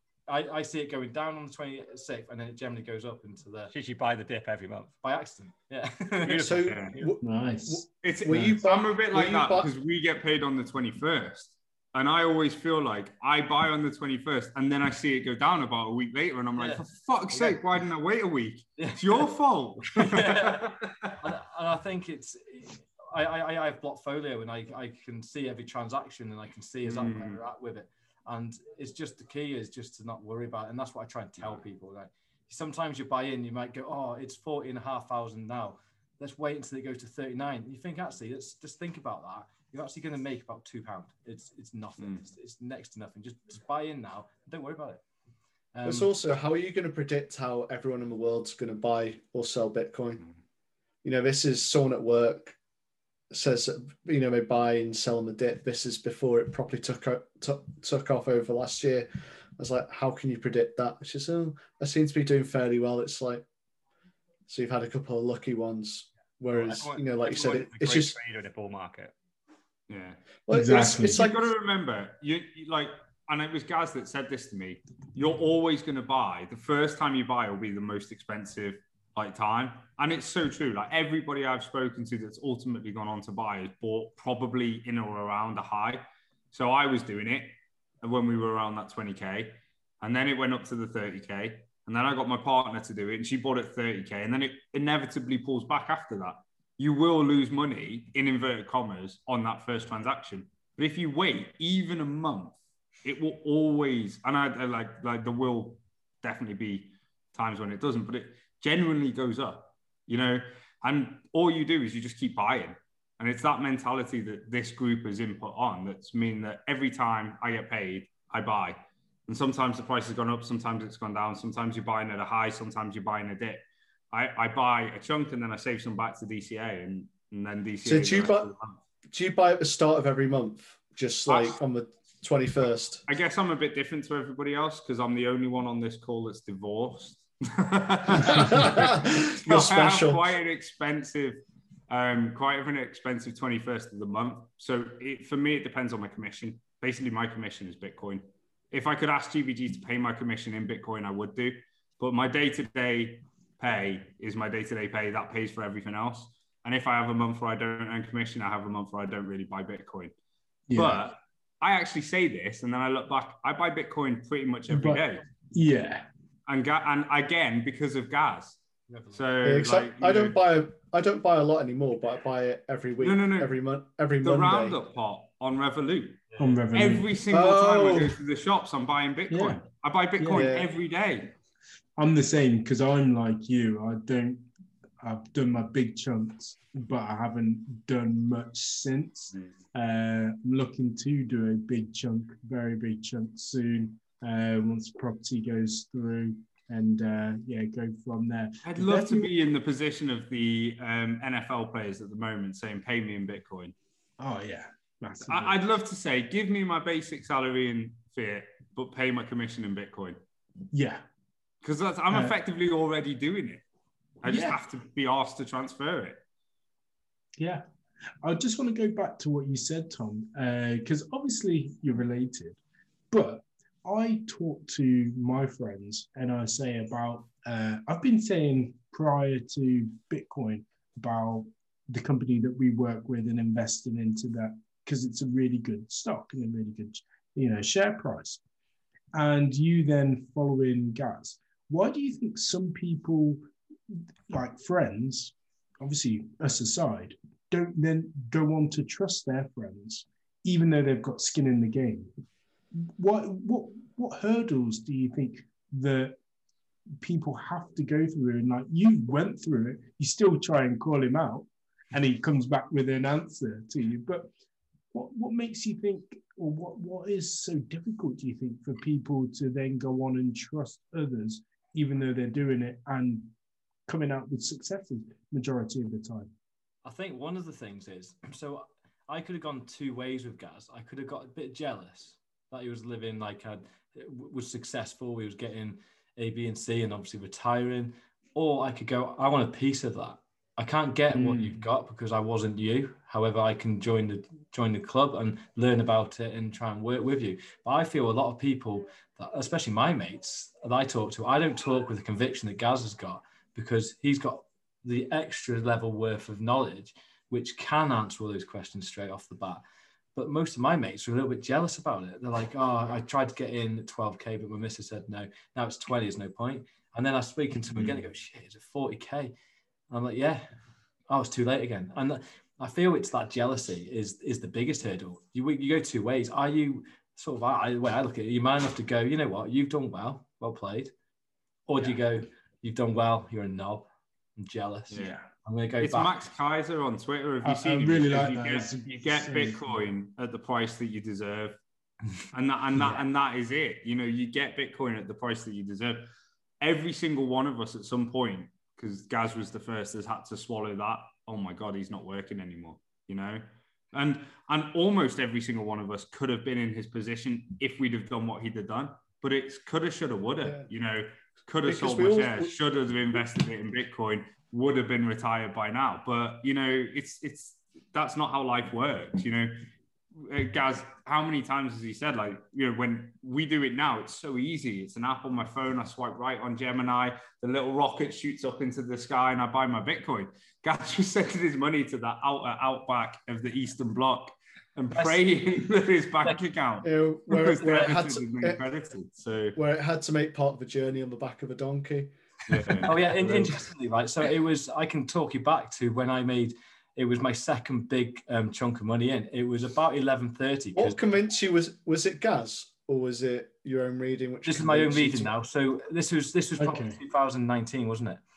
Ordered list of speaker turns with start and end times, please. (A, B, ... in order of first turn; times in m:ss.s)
0:00.3-0:03.7 A
0:03.7-0:05.0 B
0:05.0-0:06.6 A
0:06.2-0:06.8 B
0:06.3-0:09.7 C
0:06.6-0:06.9 D
0:07.2-0:08.6 E
0:08.0-0:21.1 D
0:16.6-0:17.6 A
0:18.8-0:19.3 A
0:19.9-0:45.0 A
0:26.8-0:27.4 D
0:45.7-0:46.1 A
0:45.8-0:50.2 C
0:51.0-0:52.6 C
0:53.3-1:03.4 C
1:04.5-1:08.2 C
1:06.5-1:07.0 A
1:06.6-1:09.1 B
1:09.9-1:10.2 D
1:10.5-1:11.5 C
1:10.5-1:11.2 E
1:10.9-2:08.8 D
2:07.8-2:08.5 C
2:09.1-2:13.0 C
2:11.3-2:11.6 D
2:13.1-2:40.1 D
2:18.2-2:20.2 C
2:40.7-2:41.1 E
2:40.7-2:45.2 D
2:44.7-2:46.1 E
2:46.5-2:48.6 D
2:48.9-2:49.3 A
2:49.1-2:50.4 D
2:49.4-2:54.8 C
2:53.0-2:53.5 D
2:54.2-3:01.3 D
2:56.3-2:56.6 A
2:56.4-2:57.1 E
2:57.3-2:58.2 C
2:59.3-2:59.6 E
3:00.2-3:00.5 E
3:00.3-3:00.7 C
3:02.0-3:04.4 E
3:05.0-3:19.3 E
3:18.6-3:23.7 D
3:24.2-3:25.6 E
3:25.2-3:30.2 D
3:30.7-3:31.0 E
3:31.6-3:33.6 D
3:32.1-3:32.4 E
3:34.2-3:36.2 D
3:34.2-3:34.6 E
3:37.4-3:37.6 E
3:38.2-3:42.6 E
3:43.1-3:58.4 E
3:59.1-4:12.1 E
4:12.8-4:16.2 E
4:17.0-4:24.3 E
4:24.9-4:33.3 E
4:33.9-4:36.3 E
4:36.8-5:09.6 A
4:51.1-4:51.6 E
5:10.1-5:19.3 A
5:19.9-5:20.4 A
5:21.1-5:30.9 A
5:31.7-5:36.2 A
5:34.9-5:35.2 D
5:35.0-5:35.2 E
5:35.8-5:41.6 D
5:37.4-5:39.8 E
5:42.3-5:46.1 D
5:46.6-6:09.6 D
6:01.6-6:02.5 C
6:10.2-6:26.9 D
6:24.9-6:25.2 A
6:26.8-6:28.6 C
6:27.4-6:29.6 D
6:27.6-6:27.9 A
6:29.5-6:32.1 C
6:32.5-6:33.6 D
6:32.8-6:41.0 A
6:40.7-6:45.3 C
6:44.4-6:48.2 A
6:46.6-6:47.0 E